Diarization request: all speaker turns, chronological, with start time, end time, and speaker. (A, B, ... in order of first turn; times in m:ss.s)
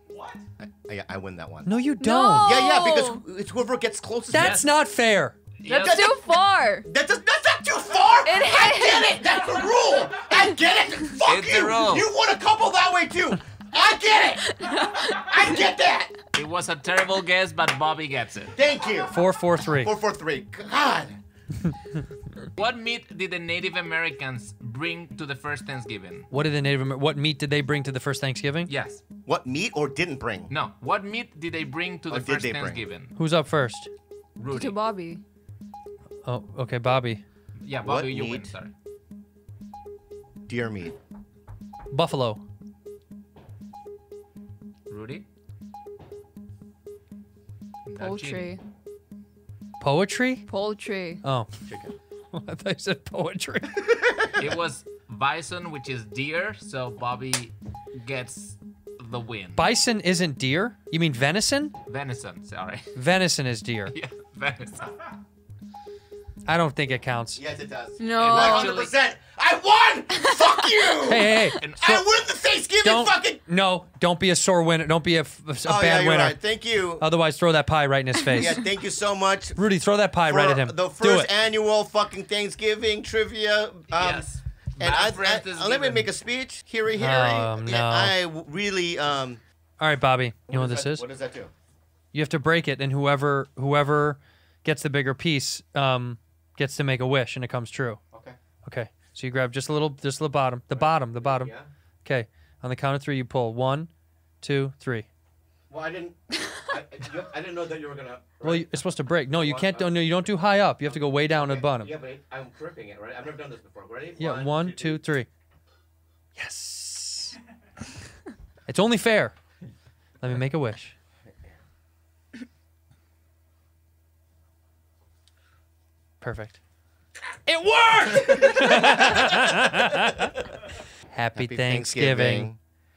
0:00.6-0:01.7 A
0:01.6-0:02.6 B
0:02.0-0:03.2 C
0:02.4-0:04.7 A
0:04.3-0:05.4 B
0:04.3-0:04.7 D
0:05.6-0:06.0 D
0:05.6-0:06.2 A
0:05.7-0:06.9 C
0:06.8-0:16.2 A
0:08.2-0:09.5 C
0:11.2-0:12.1 D
0:14.5-0:15.4 C
0:16.4-0:18.5 D
0:18.6-0:21.2 A
0:19.1-0:19.9 B
0:22.5-0:26.3 D
0:26.3-0:28.7 B
0:28.7-0:29.0 D
0:29.3-0:30.5 A
0:30.5-0:33.2 D
0:32.1-0:32.9 A
0:33.2-0:33.9 B
0:34.4-0:34.8 D
0:34.5-0:35.2 C
0:36.2-0:37.2 B
0:37.6-0:38.7 D
0:37.8-0:38.5 A
0:40.5-0:41.0 A
0:41.9-0:42.4 B
0:44.9-0:45.3 D
0:47.8-0:48.6 D
0:48.0-0:48.6 C
0:49.8-0:50.5 B
0:50.5-0:51.2 C
0:51.2-0:51.5 B
0:51.7-0:52.0 A
0:52.3-0:53.9 B
0:53.8-0:54.5 A
0:54.4-0:59.7 D
0:59.6-1:01.8 B
1:01.9-1:02.9 D
1:03.0-1:03.9 B
1:03.9-1:05.1 D
1:06.5-1:07.4 B
1:07.4-1:13.4 A
1:08.0-1:08.9 C
1:08.2-1:08.9 D
1:10.2-1:10.9 C
1:11.0-1:11.6 B
1:11.6-1:12.0 D
1:12.8-1:16.4 B
1:15.6-1:17.1 A
1:17.0-1:18.6 B
1:18.3-1:19.6 A
1:19.6-1:21.3 B
1:20.3-1:29.4 A
1:23.9-1:26.1 D
1:27.0-1:28.1 B
1:29.8-1:31.0 B
1:30.5-1:31.5 A
1:32.1-1:38.0 B
1:38.1-1:38.4 A
1:38.6-1:41.5 B
1:40.7-1:41.7 A
1:42.0-1:43.9 B
1:44.4-1:45.1 B
1:45.7-1:48.8 A
1:48.4-1:51.9 B
1:49.3-1:50.2 A
1:50.9-1:55.0 A
1:54.2-1:55.3 B
1:56.4-1:57.4 B
1:58.7-1:59.4 B
2:00.2-2:01.0 B
2:06.2-2:06.6 B
2:07.5-2:10.4 B
2:08.6-2:09.8 A
2:11.1-2:12.5 B
2:11.4-2:12.6 A